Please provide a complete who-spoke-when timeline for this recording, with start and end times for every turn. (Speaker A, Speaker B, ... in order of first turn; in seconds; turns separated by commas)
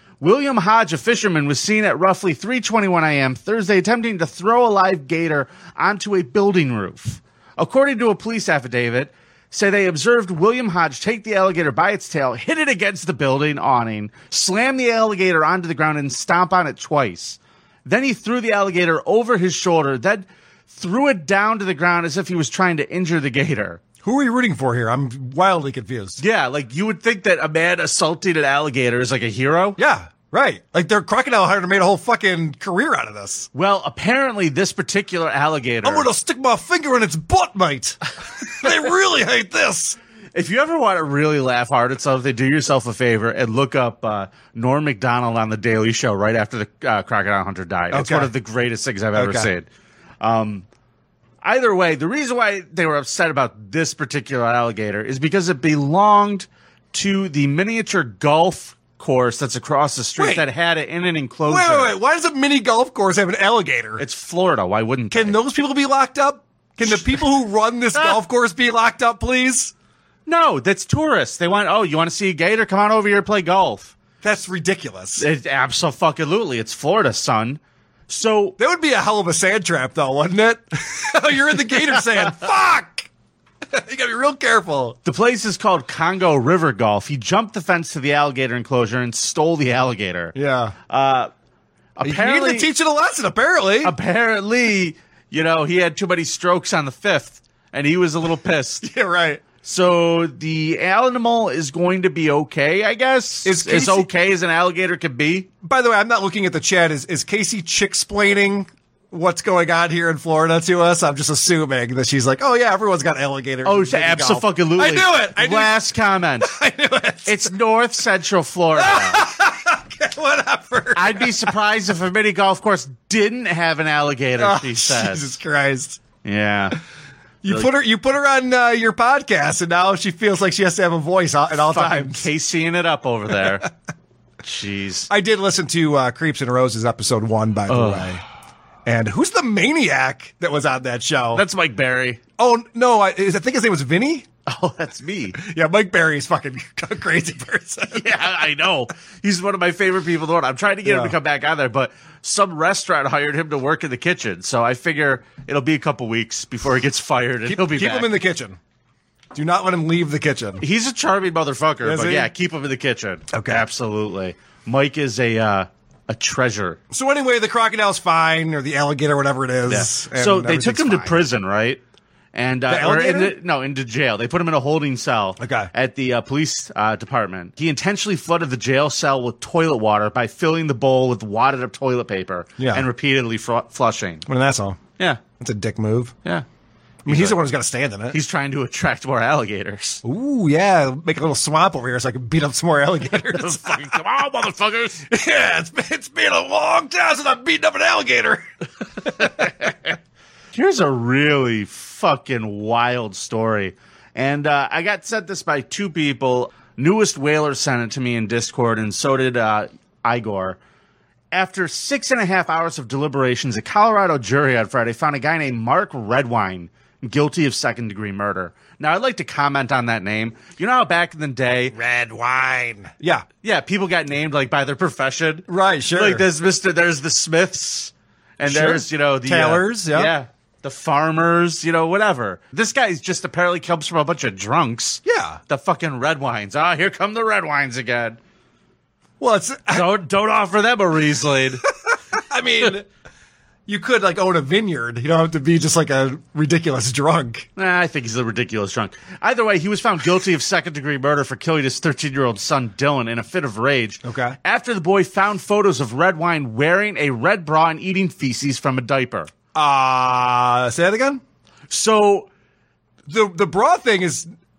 Speaker A: 0.2-23.8, Speaker B: 24.0-26.2, Speaker A: 26.2-29.8, Speaker B: 29.8-33.5, Speaker A: 33.5-36.1, Speaker B: 35.8-40.0, Speaker A: 40.4-49.7, Speaker B: 47.9-48.3, Speaker B: 49.1-49.5, Speaker A: 50.2-50.7, Speaker A: 51.4-62.0, Speaker B: 60.2-60.5, Speaker B: 61.5-64.0, Speaker A: 64.0-65.4, Speaker B: 65.1-69.7, Speaker A: 66.9-67.2, Speaker A: 70.3-74.0, Speaker B: 74.2-75.3, Speaker A: 75.2-78.6, Speaker B: 78.6-83.1, Speaker B: 83.7-85.0, Speaker A: 85.0-90.3, Speaker B: 90.3-90.8, Speaker A: 90.9-91.3, Speaker A: 92.0-92.7, Speaker B: 92.0-93.9, Speaker A: 93.8-98.9, Speaker B: 98.8-99.4, Speaker A: 99.6-105.5, Speaker B: 103.5-104.1, Speaker B: 105.6-115.9, Speaker A: 113.6-116.5, Speaker B: 116.4-117.5, Speaker A: 117.3-119.2, Speaker B: 118.8-121.5, Speaker A: 121.0-125.3, Speaker B: 124.4-126.0, Speaker A: 126.2-126.8, Speaker B: 127.4-132.3, Speaker A: 131.6-133.7, Speaker A: 134.4-135.1, Speaker B: 135.1-138.2, Speaker A: 137.7-138.2, Speaker B: 138.9-141.4, Speaker A: 141.3-142.2, Speaker B: 142.4-144.3, Speaker A: 144.5-145.4, Speaker B: 145.4-148.4, Speaker A: 147.9-158.1, Speaker B: 150.8-151.2, Speaker B: 157.5-158.6, Speaker B: 159.3-160.6, Speaker A: 160.6-166.8, Speaker B: 161.8-162.3, Speaker B: 163.3-163.7, Speaker B: 166.9-171.2, Speaker A: 169.7-171.8, Speaker A: 172.3-184.3, Speaker B: 172.7-173.3, Speaker B: 175.4-175.7, Speaker B: 182.6-182.9, Speaker B: 184.3-184.8, Speaker B: 185.4-186.1, Speaker B: 187.1-188.2, Speaker A: 187.1-187.4, Speaker A: 188.1-190.0, Speaker B: 190.0-194.0, Speaker A: 193.3-195.1, Speaker B: 195.1-198.4, Speaker B: 199.0-199.5, Speaker A: 199.2-199.5, Speaker A: 200.5-210.6, Speaker A: 211.3-221.8, Speaker B: 221.7-223.3, Speaker A: 223.4-238.2, Speaker B: 225.5-226.3, Speaker B: 228.4-230.2, Speaker B: 235.1-235.4, Speaker B: 239.2-239.9, Speaker A: 239.7-241.6, Speaker B: 242.1-242.9, Speaker B: 243.7-247.5, Speaker A: 247.6-259.3, Speaker B: 254.0-254.4, Speaker B: 259.5-261.2, Speaker A: 261.7-262.3, Speaker B: 263.1-264.3